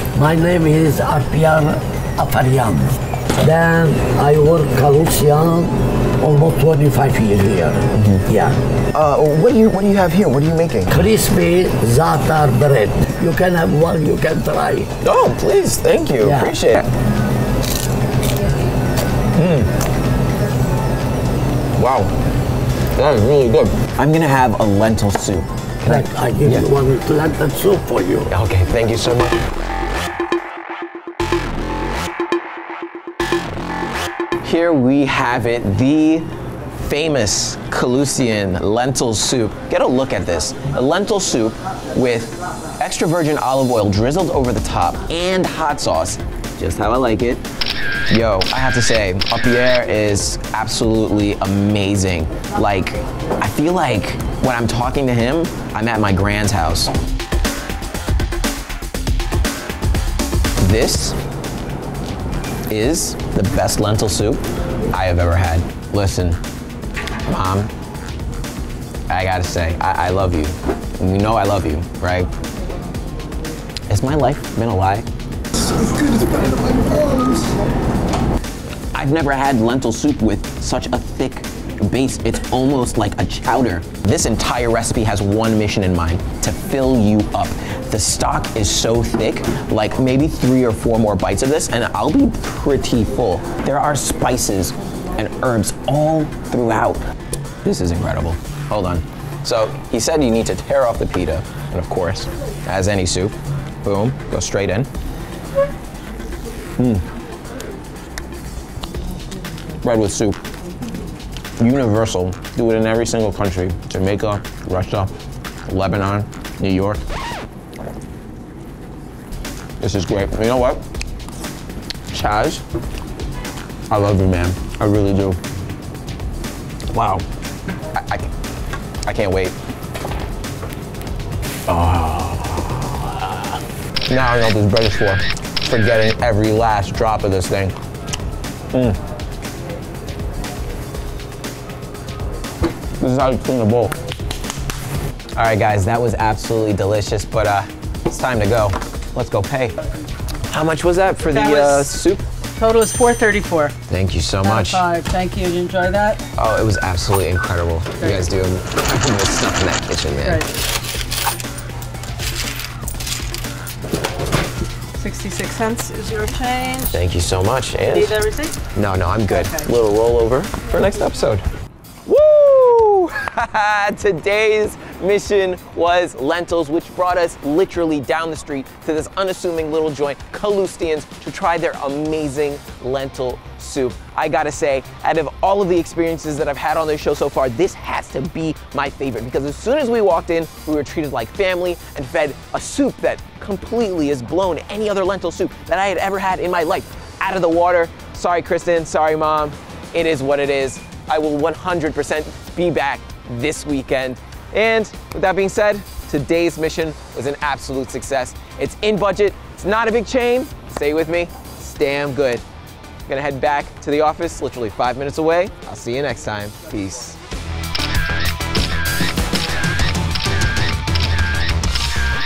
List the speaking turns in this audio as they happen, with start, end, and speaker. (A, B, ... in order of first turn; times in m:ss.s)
0:00.1-0:08.5 A
0:07.9-0:08.2 B
0:08.9-0:11.0 B
0:10.9-0:14.9 A
0:15.0-0:16.9 B
0:16.2-0:16.5 A
0:19.4-0:19.7 B
0:21.8-0:22.1 B
0:23.0-0:26.7 B
0:25.9-0:28.3 A
0:28.3-0:29.4 B
0:34.4-0:36.3 B
0:36.8-0:47.4 B
0:48.1-0:56.9 B
1:00.6-1:01.2 B
1:02.7-1:06.4 B
1:07.2-1:07.7 B
1:09.1-1:12.3 B
1:13.9-1:15.1 B
1:16.3-1:16.8 A
1:18.9-1:37.0 B
1:37.6-1:44.9 B
1:46.8-1:47.0 B
1:49.8-1:50.4 B
1:51.6-1:55.1 B
1:55.7-1:57.0 B
1:59.8-2:00.8 B
2:02.1-2:02.6 B
2:03.9-2:05.4 B
2:06.9-2:07.2 B
2:07.9-2:08.3 B
2:09.0-2:09.5 B
2:11.7-2:13.3 B
2:14.1-2:17.7 B
2:18.7-2:19.0 B
2:23.0-2:23.9 B
2:25.4-2:29.7 B
2:30.5-2:32.2 B
2:31.3-2:31.9 C
2:32.6-2:33.7 C
2:33.9-2:34.8 B
2:34.4-2:36.2 C
2:36.4-2:40.5 B
2:38.0-2:38.3 C
2:45.0-2:46.9 C
2:46.9-2:51.4 B
2:47.9-2:48.6 C
2:52.0-3:32.4 B
3:33.1-3:37.2 B